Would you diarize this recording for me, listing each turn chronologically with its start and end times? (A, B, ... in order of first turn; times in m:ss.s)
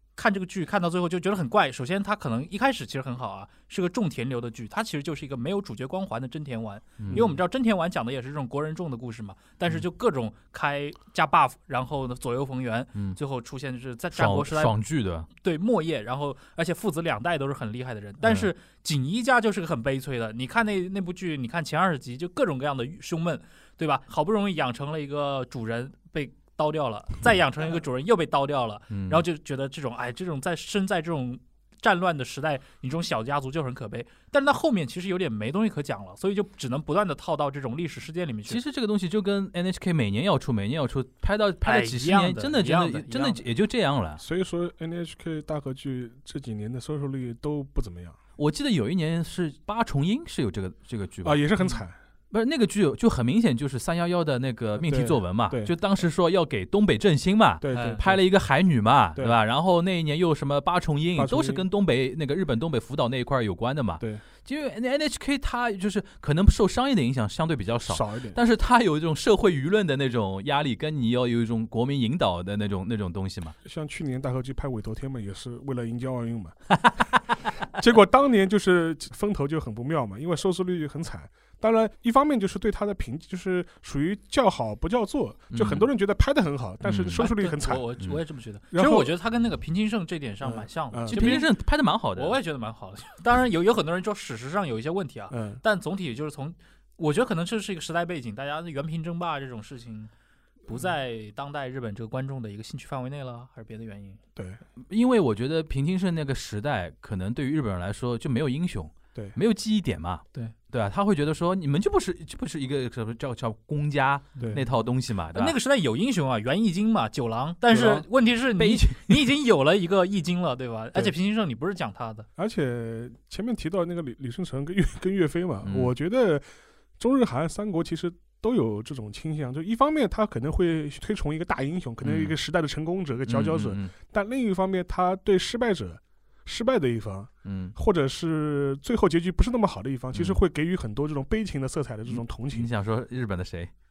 0:00.2-0:14.7 A
0:07.0-0:07.4 B
0:07.1-0:07.4 C
0:14.1-0:15.3 B
0:15.4-0:38.6 A
0:18.2-0:18.5 B
0:28.9-0:29.2 B
0:38.5-0:44.2 B
0:41.6-0:43.4 A
0:44.2-0:48.2 C
0:48.4-0:51.4 B
0:51.2-0:52.0 C
0:52.3-1:13.6 B
0:54.8-0:55.7 C
0:57.6-0:58.2 C
0:57.7-0:58.0 A
1:01.1-1:01.6 C
1:07.9-1:08.4 C
1:13.6-1:16.6 C
1:17.7-1:27.9 C
1:25.5-1:25.9 B
1:26.8-1:27.2 B
1:27.2-1:31.5 A
1:28.7-1:29.1 C
1:30.4-1:31.4 C
1:31.1-1:32.4 B
1:32.1-1:40.1 A
1:35.3-1:35.6 C
1:40.7-1:44.2 A
1:44.9-1:55.6 B
1:54.4-1:54.6 C
1:55.4-2:02.3 A
1:57.7-1:58.0 C
1:58.6-1:59.2 B
2:02.4-2:06.4 C
2:05.6-2:05.9 B
2:07.0-2:22.7 C
2:12.0-2:12.4 B
2:13.3-2:13.9 B
2:17.4-2:17.7 B
2:20.1-2:20.4 B
2:22.1-2:23.7 B